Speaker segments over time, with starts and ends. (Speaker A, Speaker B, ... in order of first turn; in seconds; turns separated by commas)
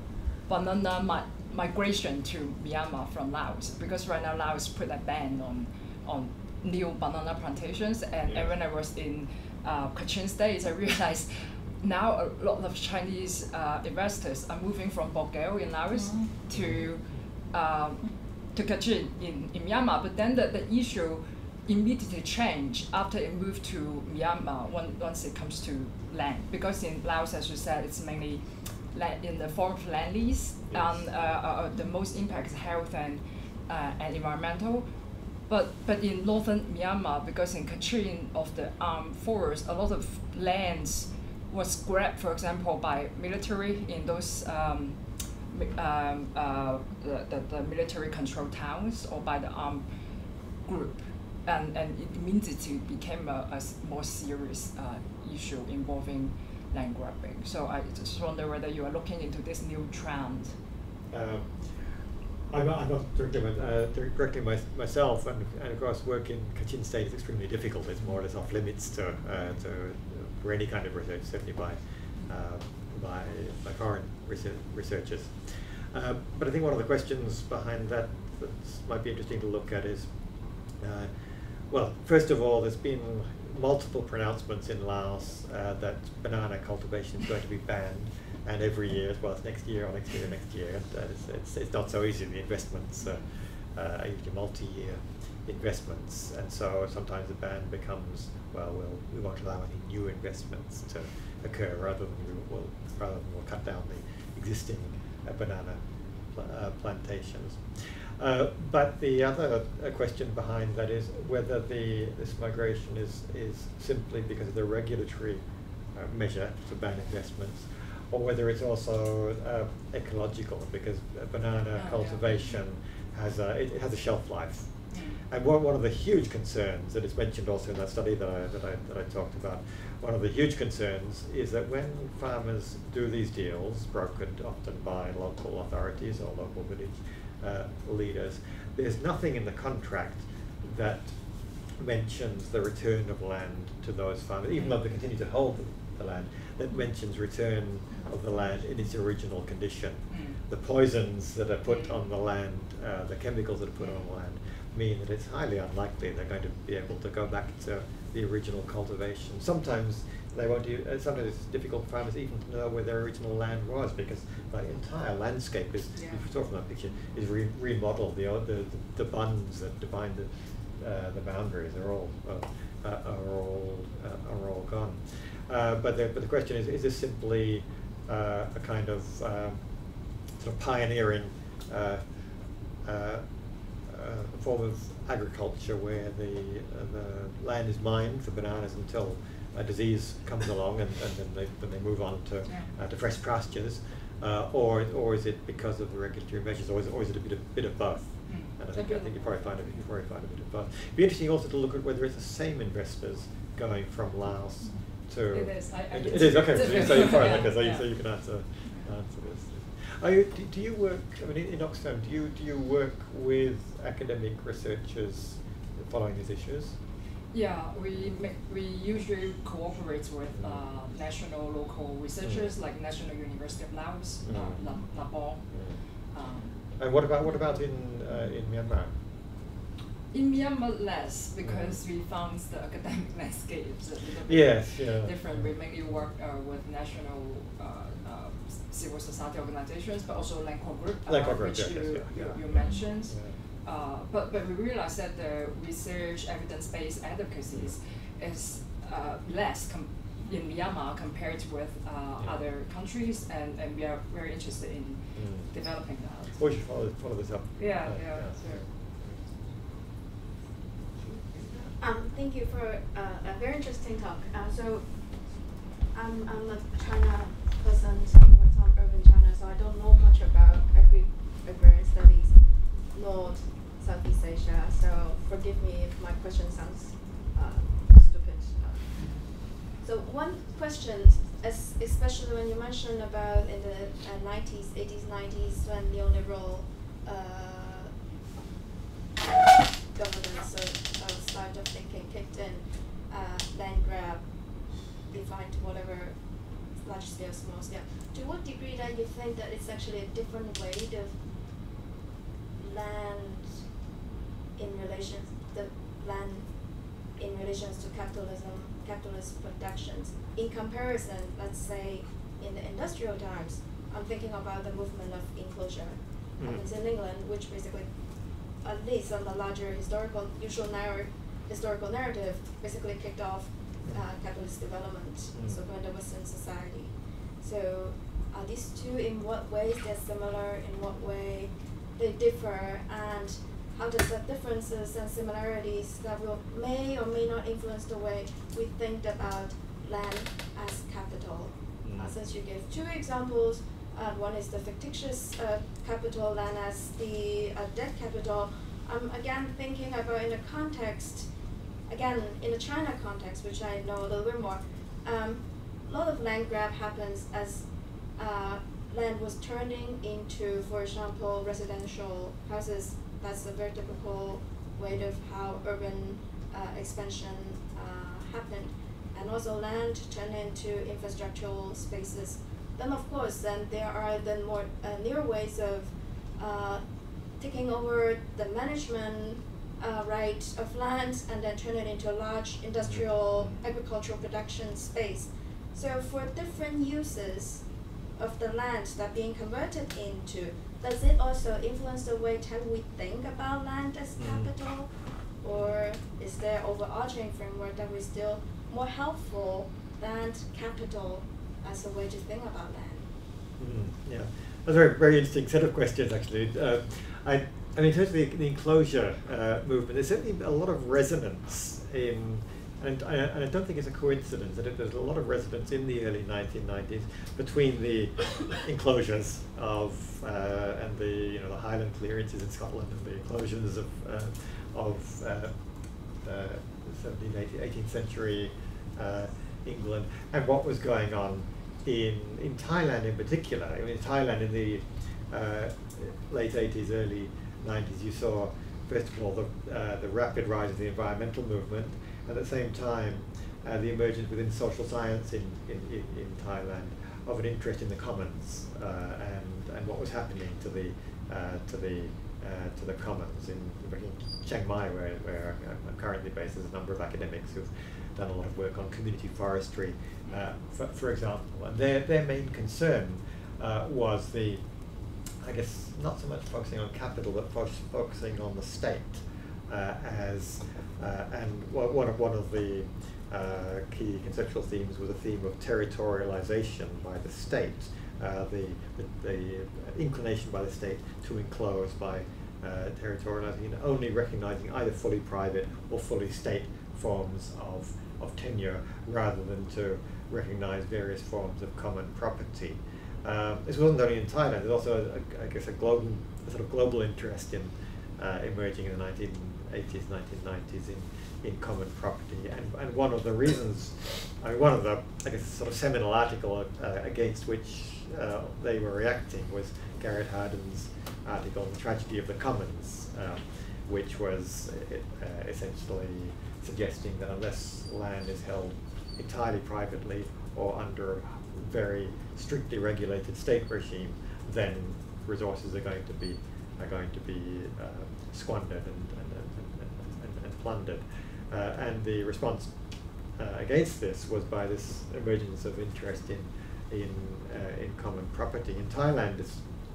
Speaker A: 0.5-34.9, Speaker B: 16.5-16.9, Speaker B: 30.7-31.1, Speaker A: 35.5-49.9, Speaker A: 50.6-60.6, Speaker B: 61.1-61.6, Speaker B: 62.5-80.1, Speaker B: 80.8-81.1, Speaker B: 81.7-105.8, Speaker A: 93.0-93.3, Speaker B: 106.3-107.6, Speaker B: 108.2-115.4, Speaker B: 116.0-124.7, Speaker A: 121.8-122.6, Speaker A: 124.9-125.2, Speaker B: 125.3-141.2, Speaker B: 141.8-179.6, Speaker A: 150.1-150.4, Speaker A: 151.7-152.0, Speaker A: 166.0-166.2, Speaker B: 180.4-182.0, Speaker B: 182.8-183.2, Speaker B: 183.9-216.8, Speaker A: 192.5-192.7, Speaker A: 198.3-199.8, Speaker A: 204.6-207.9, Speaker A: 208.6-208.9, Speaker A: 217.3-227.6, Speaker B: 220.4-220.7, Speaker B: 222.2-222.5, Speaker B: 224.2-224.8, Speaker B: 225.5-225.8, Speaker B: 226.8-228.9, Speaker A: 230.1-256.5, Speaker B: 231.4-231.8, Speaker B: 234.3-236.1, Speaker B: 241.1-243.4, Speaker B: 255.1-255.5, Speaker B: 256.4-259.2, Speaker A: 257.6-258.7, Speaker C: 261.5-288.0, Speaker C: 289.7-301.2, Speaker C: 302.6-303.7, Speaker C: 304.6-351.3, Speaker B: 316.4-316.7, Speaker B: 325.3-325.6, Speaker C: 351.9-394.9, Speaker B: 382.9-383.6, Speaker B: 394.2-394.5, Speaker C: 395.4-403.1, Speaker B: 403.6-425.5, Speaker B: 426.2-464.6, Speaker B: 465.4-532.8, Speaker B: 533.4-539.6